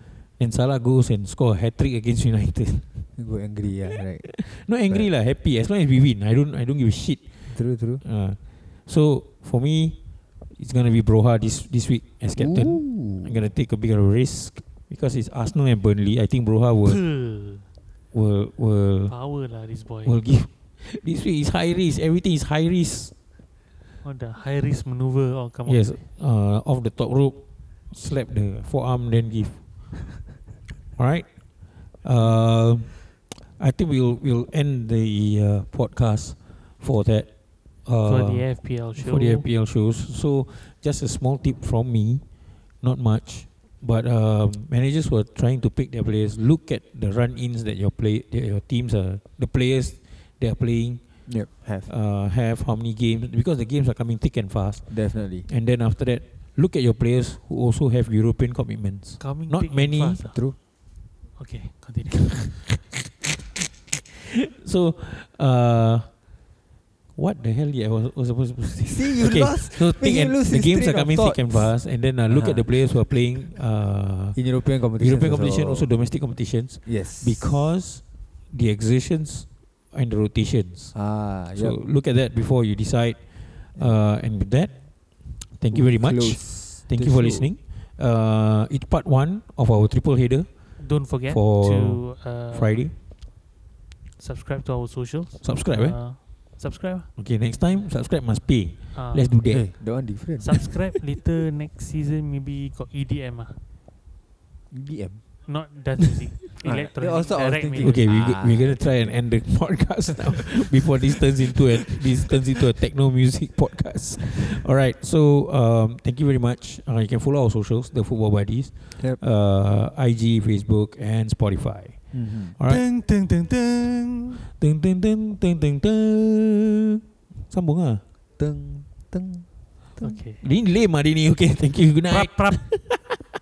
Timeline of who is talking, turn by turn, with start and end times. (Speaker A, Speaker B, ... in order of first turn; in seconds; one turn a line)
Speaker A: 0.4-3.1
Speaker B: 3.2-5.1
Speaker A: 4.2-7.4
Speaker B: 7.5-8.0
Speaker A: 8.0-10.0
Speaker A: 10.5-17.0
Speaker B: 12.4-13.4
Speaker C: 16.9-17.7
Speaker A: 18.1-19.1
Speaker C: 19.1-20.2
Speaker A: 20.0-23.1
Speaker C: 24.0-25.9
Speaker A: 25.7-29.6
Speaker A: 31.0-31.3
Speaker A: 32.0-37.3
Speaker A: 37.8-42.2
Speaker C: 38.0-39.5
Speaker A: 42.8-51.0
Speaker B: 51.3-51.9
Speaker A: 51.9-60.2
Speaker B: 54.9-55.5
Speaker C: 59.2-60.4
Speaker C: 61.4-62.6
Speaker A: 64.1-66.1
Speaker A: 67.2-74.4
Speaker B: 68.8-73.0
Speaker B: 74.3-75.9
Speaker A: 75.0-81.0
Speaker B: 76.8-77.7
Speaker B: 80.9-81.8
Speaker A: 81.5-90.5
Speaker B: 85.7-87.5
Speaker C: 90.8-92.8
Speaker A: 91.3-92.9
Speaker C: 94.2-97.1
Speaker A: 95.4-96.0
Speaker A: 97.2-99.7
Speaker C: 98.9-99.3
Speaker B: 99.5-100.6
Speaker C: 100.4-103.6
Speaker B: 104.7-105.2
Speaker C: 105.5-108.0
Speaker B: 106.6-109.2
Speaker A: 107.8-122.8
Speaker B: 110.2-110.6
Speaker B: 122.1-122.6
Speaker C: 122.7-124.4
Speaker A: 124.5-128.0
Speaker B: 128.4-130.2
Speaker C: 130.0-130.4
Speaker A: 130.4-133.2
Speaker C: 132.1-132.6